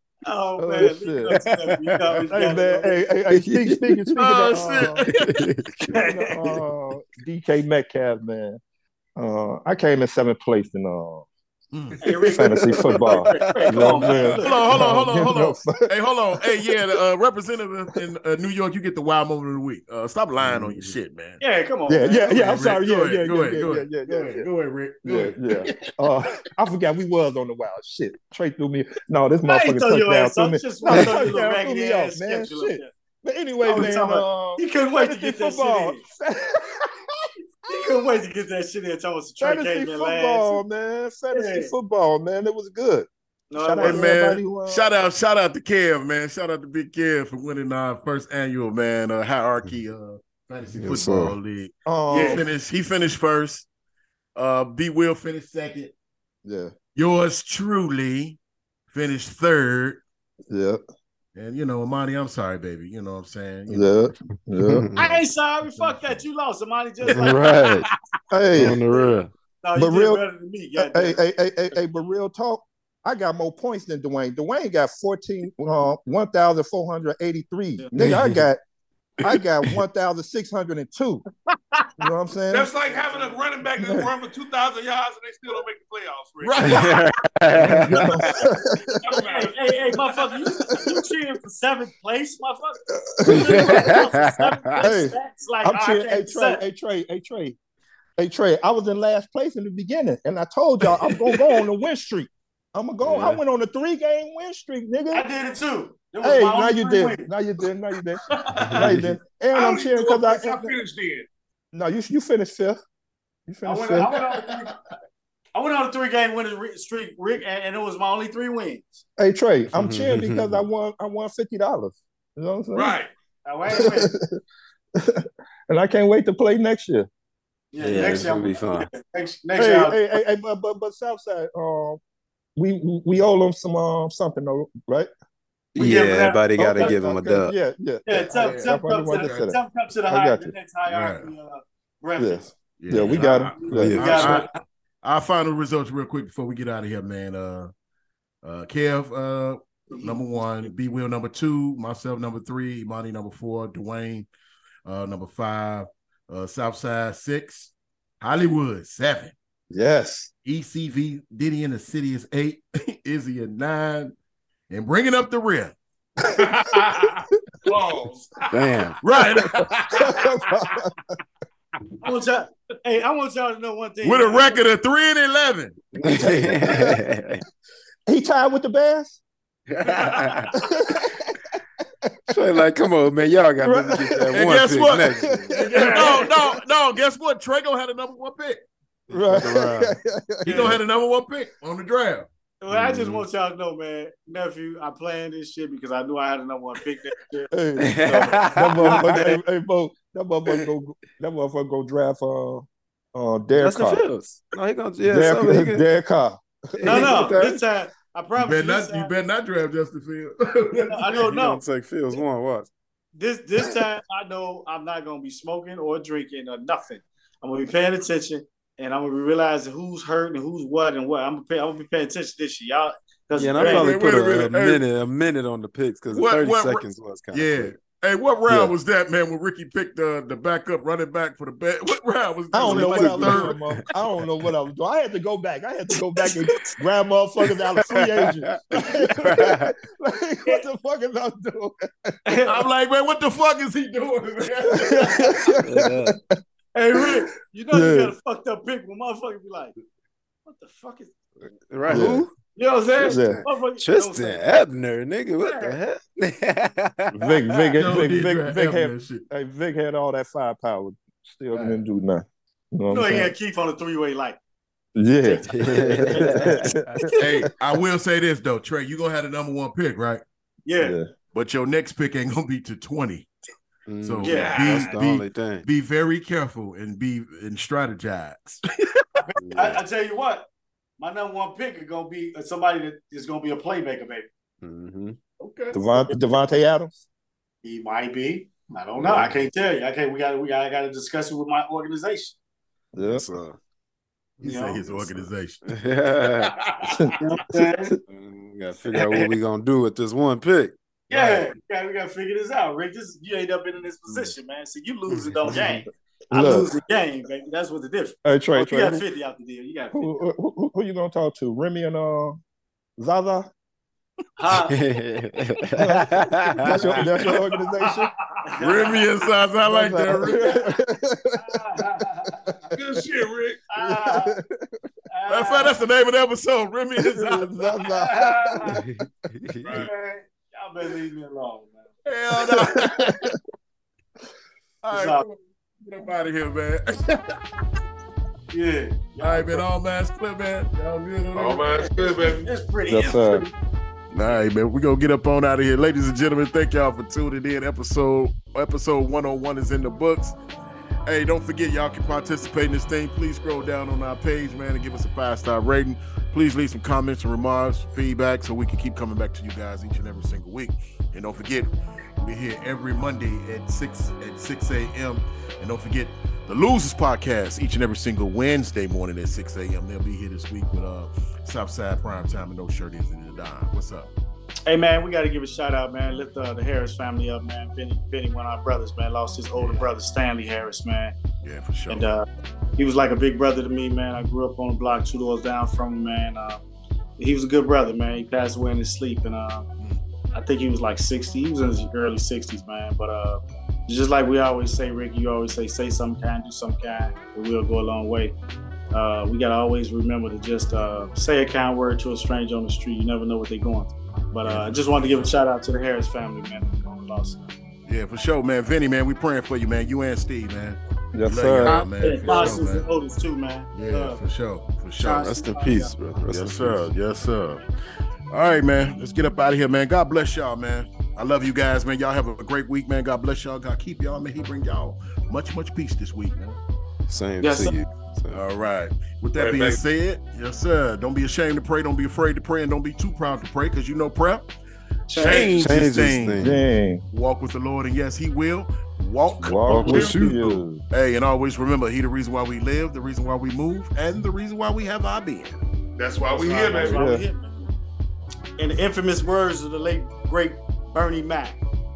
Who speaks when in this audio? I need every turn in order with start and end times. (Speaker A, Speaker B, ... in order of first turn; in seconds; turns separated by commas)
Speaker A: 0.2-3.1, Speaker B: 0.6-1.3, Speaker C: 1.3-2.0, Speaker B: 2.3-5.0, Speaker C: 3.3-4.0, Speaker D: 4.2-5.3, Speaker C: 4.8-5.9, Speaker A: 5.9-6.3, Speaker B: 5.9-8.6, Speaker B: 9.2-11.3, Speaker D: 11.7-12.0, Speaker A: 12.0-14.6, Speaker B: 12.3-16.7, Speaker C: 12.9-14.4, Speaker D: 14.4-21.4, Speaker C: 20.5-20.9, Speaker A: 21.4-22.3, Speaker B: 21.9-24.4, Speaker D: 22.3-25.9, Speaker B: 25.0-36.9, Speaker A: 29.4-32.9, Speaker A: 33.6-36.0, Speaker A: 37.7-40.6, Speaker B: 39.4-43.1, Speaker A: 41.3-41.7, Speaker A: 43.5-44.1, Speaker B: 43.6-44.9, Speaker D: 43.8-53.7, Speaker C: 50.8-51.4, Speaker B: 51.9-52.5, Speaker A: 52.1-52.4, Speaker D: 54.4-55.9, Speaker B: 56.4-56.7, Speaker D: 57.0-58.4, Speaker D: 58.9-60.0, Speaker B: 60.5-60.8, Speaker D: 61.3-64.0, Speaker B: 63.7-64.9, Speaker C: 64.6-65.0, Speaker D: 65.0-66.2, Speaker A: 65.0-67.8, Speaker C: 67.0-67.8, Speaker B: 68.3-68.8, Speaker C: 68.5-69.3, Speaker A: 69.6-71.2, Speaker B: 69.7-70.2, Speaker B: 70.8-78.6, Speaker C: 78.0-78.5, Speaker B: 79.2-81.2, Speaker B: 82.0-82.7, Speaker E: 82.5-86.9, Speaker A: 82.8-83.4, Speaker B: 83.8-84.1, Speaker D: 86.4-87.1, Speaker C: 86.6-88.3, Speaker B: 87.7-89.0, Speaker E: 88.9-90.4, Speaker A: 89.0-96.6, Speaker B: 93.1-93.9, Speaker C: 93.3-94.8, Speaker B: 94.8-97.6, Speaker B: 98.2-105.2, Speaker C: 103.0-103.4, Speaker A: 105.1-107.3, Speaker B: 106.2-110.7, Speaker A: 108.3-108.9, Speaker C: 108.6-109.1, Speaker E: 109.5-111.3, Speaker B: 111.7-112.8, Speaker B: 113.5-114.1, Speaker A: 113.6-114.7, Speaker A: 115.5-119.0, Speaker B: 119.2-123.0, Speaker C: 119.7-120.6, Speaker E: 122.7-123.1, Speaker A: 123.4-124.1, Speaker B: 123.7-124.2, Speaker B: 125.0-127.1, Speaker A: 127.7-130.0, Speaker C: 127.8-128.9, Speaker B: 129.6-132.0, Speaker B: 132.6-135.1, Speaker C: 135.7-137.6, Speaker A: 135.8-136.9, Speaker B: 136.6-140.5, Speaker A: 138.1-142.5, Speaker D: 138.3-139.4, Speaker D: 140.9-141.3, Speaker B: 142.2-144.2, Speaker D: 142.8-144.5, Speaker A: 143.1-144.6, Speaker C: 143.7-144.4, Speaker D: 145.0-147.7, Speaker D: 148.4-154.3, Speaker D: 154.8-159.3, Speaker B: 159.7-160.3, Speaker D: 160.4-164.1, Speaker D: 164.7-165.7, Speaker E: 166.2-168.9, Speaker C: 168.5-169.0, Speaker D: 169.0-170.2, Speaker B: 169.9-170.9, Speaker A: 172.0-174.6, Speaker D: 174.0-175.8, Speaker B: 176.0-177.0, Speaker C: 176.0-177.4, Speaker B: 178.1-179.2, Speaker C: 179.7-180.5, Speaker A: 180.1-180.4, Speaker B: 180.5-181.3, Speaker C: 182.3-185.6, Speaker B: 183.6-184.4, Speaker D: 184.3-185.1, Speaker B: 185.2-186.4, Speaker A: 185.5-186.3, Speaker D: 185.7-188.6, Speaker C: 189.1-190.0, Speaker B: 189.1-190.8, Speaker D: 190.4-192.3, Speaker A: 190.5-190.7, Speaker A: 192.6-197.5, Speaker C: 192.7-193.2, Speaker B: 197.5-204.1, Speaker C: 197.8-199.4, Speaker C: 203.6-205.8, Speaker B: 205.0-207.3, Speaker C: 206.8-207.6, Speaker A: 206.8-209.1, Speaker D: 208.4-211.2, Speaker A: 210.8-211.6, Speaker C: 211.2-212.7, Speaker A: 213.2-223.9, Speaker C: 223.3-227.8, Speaker D: 223.6-224.8, Speaker D: 226.1-233.6, Speaker B: 232.5-242.4, Speaker C: 232.6-233.8, Speaker C: 238.2-238.6, Speaker C: 239.2-239.7, Speaker A: 242.2-242.6, Speaker D: 242.4-245.3, Speaker B: 244.7-246.2, Speaker A: 245.0-245.4, Speaker C: 245.6-246.1, Speaker A: 246.7-249.7, Speaker B: 247.7-248.1, Speaker A: 250.4-251.1, Speaker C: 251.6-252.3, Speaker B: 251.9-252.2, Speaker A: 252.6-254.6, Speaker C: 253.0-257.8, Speaker B: 253.1-253.4, Speaker A: 255.4-255.8, Speaker B: 257.1-263.3, Speaker D: 257.8-259.2, Speaker D: 261.5-261.8, Speaker A: 262.9-264.4, Speaker B: 264.9-267.0, Speaker A: 265.2-267.4, Speaker C: 265.5-267.1, Speaker D: 267.2-270.2, Speaker A: 270.6-271.0, Speaker B: 270.8-271.1, Speaker D: 271.3-273.3, Speaker C: 273.9-275.6, Speaker D: 274.0-279.1, Speaker A: 274.2-274.8, Speaker E: 274.3-274.9, Speaker A: 279.2-280.5, Speaker C: 279.4-279.8, Speaker A: 281.0-284.3, Speaker C: 284.6-285.2, Speaker D: 285.4-285.8, Speaker B: 285.7-287.1, Speaker A: 285.9-286.3, Speaker A: 287.6-292.3, Speaker C: 289.0-289.3, Speaker B: 292.9-293.3, Speaker C: 293.0-293.6, Speaker D: 294.4-295.7, Speaker A: 294.4-294.8, Speaker C: 294.9-296.6, Speaker D: 296.4-297.0, Speaker B: 296.9-297.1, Speaker A: 297.2-297.9, Speaker C: 298.1-300.8, Speaker A: 298.9-299.3, Speaker A: 301.1-310.2, Speaker D: 301.1-301.5, Speaker C: 305.1-305.8, Speaker B: 306.3-306.7, Speaker B: 308.2-309.0, Speaker B: 309.9-312.4, Speaker B: 313.0-313.5, Speaker A: 314.4-314.7, Speaker C: 314.7-317.0, Speaker B: 315.8-318.1, Speaker A: 316.9-319.1, Speaker D: 318.6-320.7, Speaker B: 319.6-321.6, Speaker A: 320.2-320.7, Speaker A: 321.3-322.4, Speaker E: 322.7-323.6, Speaker A: 323.7-324.3, Speaker B: 323.8-324.8, Speaker A: 325.1-325.8, Speaker D: 325.3-327.5, Speaker B: 327.0-328.5, Speaker A: 327.8-328.8, Speaker C: 328.7-329.9, Speaker A: 329.7-331.9, Speaker D: 332.1-333.3, Speaker B: 332.3-333.3, Speaker D: 334.8-337.4, Speaker A: 334.9-335.2, Speaker A: 338.5-339.6, Speaker D: 339.2-341.9, Speaker E: 341.3-342.5, Speaker A: 341.7-343.5, Speaker B: 342.9-343.5, Speaker D: 344.1-350.4, Speaker D: 351.1-374.1, Speaker A: 374.6-381.1, Speaker D: 379.6-379.9, Speaker D: 381.4-382.1, Speaker A: 381.9-382.2, Speaker A: 382.8-386.6, Speaker A: 387.2-389.6, Speaker A: 390.3-398.3, Speaker A: 398.9-407.5, Speaker D: 404.4-405.4, Speaker D: 407.9-412.8, Speaker B: 411.1-412.5, Speaker A: 411.6-414.2, Speaker D: 413.7-415.2, Speaker A: 415.0-415.9, Speaker C: 415.1-416.9, Speaker D: 416.3-417.6, Speaker D: 418.3-426.6, Speaker C: 427.1-428.4, Speaker A: 427.4-427.8, Speaker D: 428.3-434.4, Speaker E: 429.4-429.8, Speaker A: 435.1-435.6, Speaker D: 435.1-436.5, Speaker C: 435.6-436.6, Speaker B: 436.4-437.0, Speaker D: 437.1-445.6, Speaker B: 439.4-440.8, Speaker C: 439.7-440.6, Speaker E: 446.0-447.1, Speaker A: 446.3-447.7, Speaker B: 446.8-447.2, Speaker A: 448.6-451.6